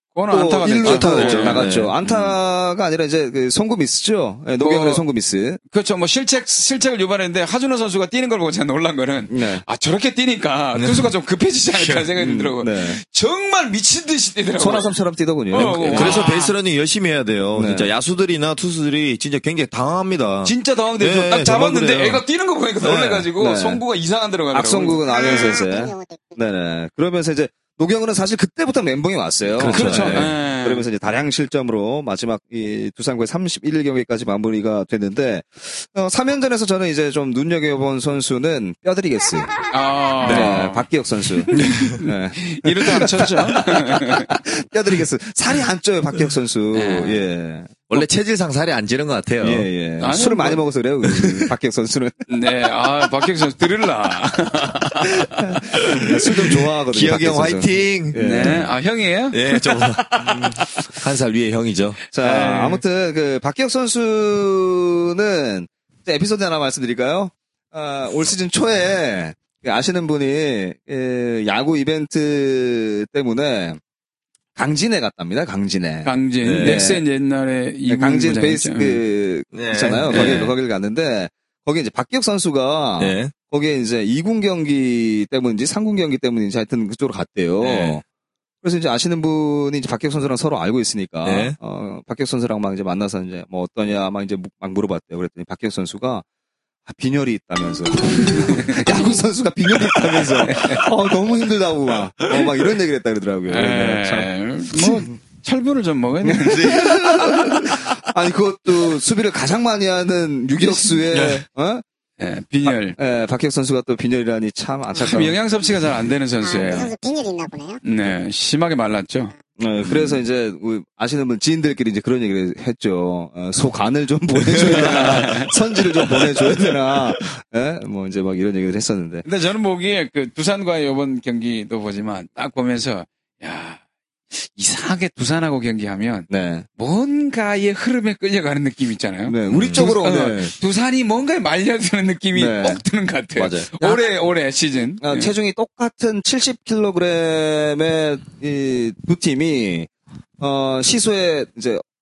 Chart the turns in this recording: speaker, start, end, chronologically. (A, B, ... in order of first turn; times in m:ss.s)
0:00.1-0:02.4 A
0:00.3-0:05.6 B
0:00.8-0:01.9 C
0:04.6-0:05.0 A
0:05.7-0:14.9 A
0:09.3-0:09.6 B
0:10.7-0:11.1 C
0:11.7-0:12.1 C
0:12.2-0:13.0 B
0:14.6-0:16.2 B
0:15.5-0:16.5 A
0:15.5-0:22.2 C
0:17.5-0:17.9 B
0:20.4-0:25.6 A
0:22.8-0:23.8 B
0:24.5-0:39.5 B
0:25.1-0:26.4 D
0:29.5-0:30.3 C
0:29.6-0:30.9 A
0:39.7-0:40.8 A
0:40.2-0:48.0 B
0:40.2-0:40.6 C
0:41.5-0:44.3 A
0:41.5-0:42.0 C
0:46.7-0:47.2 A
0:47.9-0:49.7 C
0:49.4-0:52.3 B
0:50.0-0:50.6 A
0:51.0-0:51.5 C
0:52.3-0:55.4 A
0:55.0-0:58.6 B
0:55.8-0:58.7 C
0:58.2-0:59.8 A
0:59.3-1:02.0 C
1:00.1-1:00.6 B
1:02.1-1:13.8 B
1:02.2-1:02.8 A
1:14.6-1:17.0 B
1:16.0-1:19.0 A
1:16.4-1:16.8 C
1:17.9-1:28.0 B
1:19.5-1:20.5 C
1:20.1-1:20.4 A
1:23.0-1:23.3 C
1:27.6-1:28.0 C
1:28.6-1:36.2 B
1:31.2-1:31.6 C
1:36.8-1:45.1 B
1:38.4-1:38.9 A
1:40.4-1:40.9 A
1:43.5-1:47.0 A
1:46.2-1:51.8 B
1:46.5-1:47.8 C
1:51.1-1:51.4 C
1:52.2-1:53.0 A
1:52.6-1:55.4 B
1:55.0-1:56.9 A
1:56.4-1:57.8 D
1:57.8-1:59.3 A
1:59.6-2:09.2 B
1:59.8-2:00.2 A
2:04.6-2:05.6 A
2:09.2-2:25.3 A
2:16.3-2:16.6 B
2:19.2-2:20.5 B
2:19.5-2:19.9 C
2:22.3-2:22.8 B
2:23.4-2:23.7 C
2:25.0-2:31.8 B